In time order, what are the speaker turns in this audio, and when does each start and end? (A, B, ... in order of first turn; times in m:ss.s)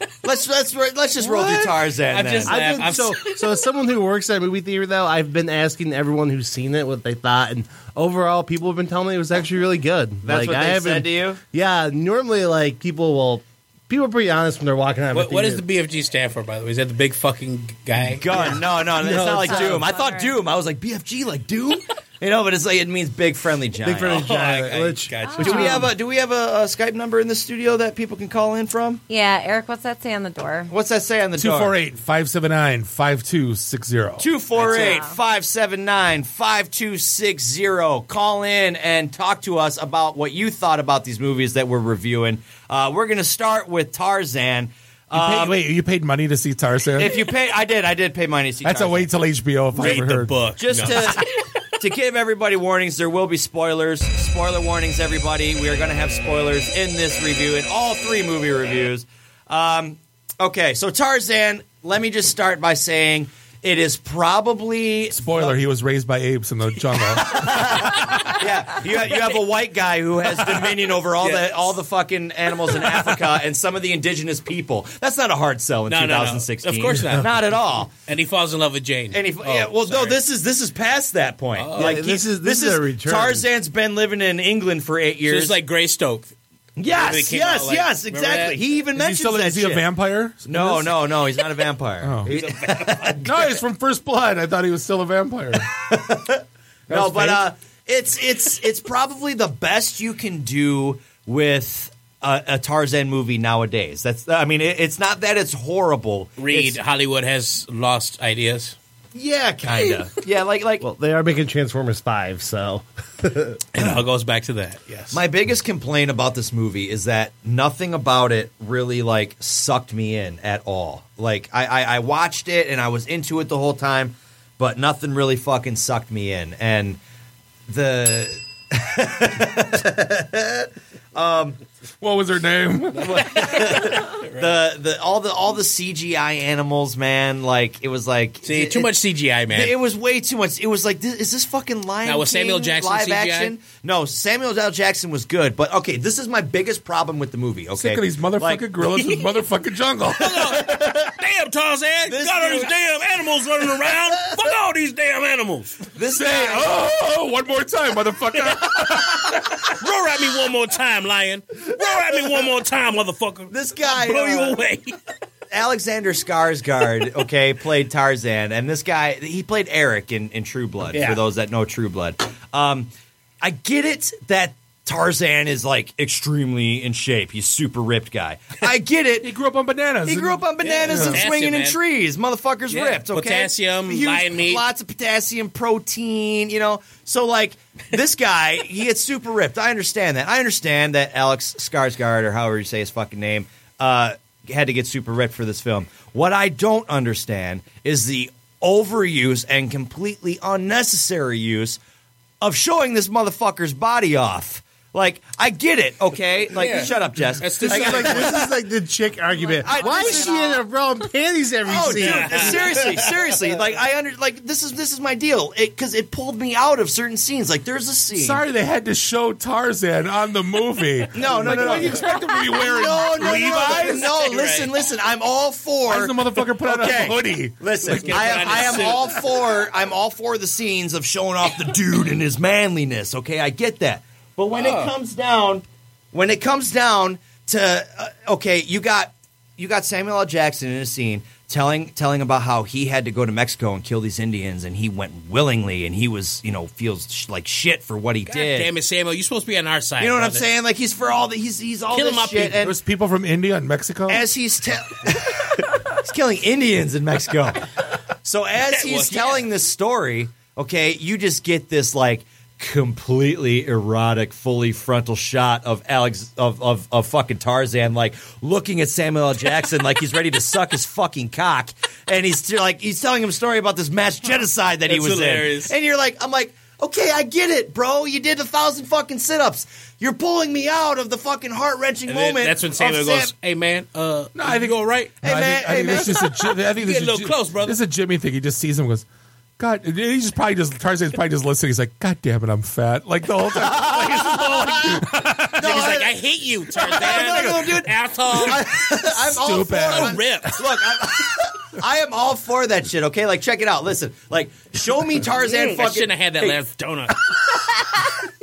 0:00.2-0:02.6 A
0:02.1-0:03.5 B
0:02.4-0:15.6 C
0:10.2-0:11.4 A
0:15.1-0:18.6 B
0:18.1-0:24.5 A
0:18.3-0:19.8 C
0:19.1-0:20.3 D
0:23.8-0:25.9 C
0:24.0-0:25.8 B
0:25.2-0:25.7 D
0:25.3-0:29.0 A
0:29.1-0:30.7 D
0:30.7-0:31.7 A
0:31.4-0:34.3 E
0:34.2-0:45.6 A
0:34.6-0:34.9 B
0:34.6-0:35.2 D
0:45.1-0:47.2 E
0:47.0-0:49.1 A
0:48.6-0:50.5 E
0:49.7-0:51.4 B
0:50.6-0:51.2 A
0:51.8-1:05.6 A
1:05.1-1:08.3 E
1:07.3-1:17.9 A
1:11.2-1:11.8 B
1:12.8-1:13.1 B
1:15.9-1:17.4 B
1:18.0-1:20.2 B
1:19.1-1:25.6 A
1:21.6-1:22.0 B
1:21.7-1:23.5 C
1:25.2-1:26.3 B
1:26.8-1:29.9 A
1:26.9-1:28.6 B
1:28.9-1:31.0 E
1:30.4-1:33.6 A
1:32.0-1:32.3 E
1:32.3-1:33.2 B
1:33.2-1:35.7 E
1:35.7-1:46.8 A
1:36.9-1:37.4 E
1:46.4-1:48.8 B
1:49.1-1:50.8 A
1:49.6-1:50.1 B
1:50.8-1:53.6 C
1:53.7-1:55.2 B
1:55.1-2:07.0 A
2:07.7-2:11.6 A
2:12.0-2:13.3 E
2:12.9-2:14.6 B
2:13.0-2:18.9 A
2:18.4-2:19.7 B
2:19.5-2:28.7 A
2:22.0-2:23.5 B
2:27.7-2:30.5 E
2:29.0-2:29.3 B
2:30.2-2:35.8 B
2:30.5-2:31.1 A
2:32.1-2:32.7 A
2:35.9-2:36.8 A
2:36.1-2:39.5 E
2:38.5-2:44.9 B
2:43.5-2:44.6 A
2:45.5-2:52.9 A
2:50.9-2:51.2 B
2:53.4-2:59.3 A
2:59.2-3:01.2 E
3:00.0-3:21.8 A
3:00.6-3:01.8 B
3:02.7-3:04.6 B
3:22.4-3:28.5 A
3:26.5-3:28.4 B
3:27.6-3:33.1 C
3:29.5-3:30.6 A
3:31.6-3:38.4 A
3:31.8-3:32.8 B
3:38.1-3:44.1 E
3:41.1-4:08.7 A
3:43.2-3:44.7 B
3:45.9-3:48.7 E
3:47.8-3:49.4 B
3:54.5-3:54.9 B
4:08.2-4:10.5 B
4:10.0-4:12.8 A
4:11.9-4:12.6 B
4:12.6-4:14.2 E
4:14.1-4:17.6 A
4:18.2-4:43.3 A
4:18.6-4:19.5 B
4:34.9-4:35.7 B
4:42.0-4:45.1 B
4:44.3-4:49.0 E
4:45.2-4:46.5 A
4:45.9-4:46.2 B
4:46.7-4:47.8 B
4:49.6-4:55.9 E
4:53.6-4:56.2 A
4:55.6-4:58.7 B
4:56.7-5:06.6 A
4:56.9-4:57.5 E
4:59.0-5:00.5 E
4:59.8-5:00.6 B
5:05.4-5:07.3 B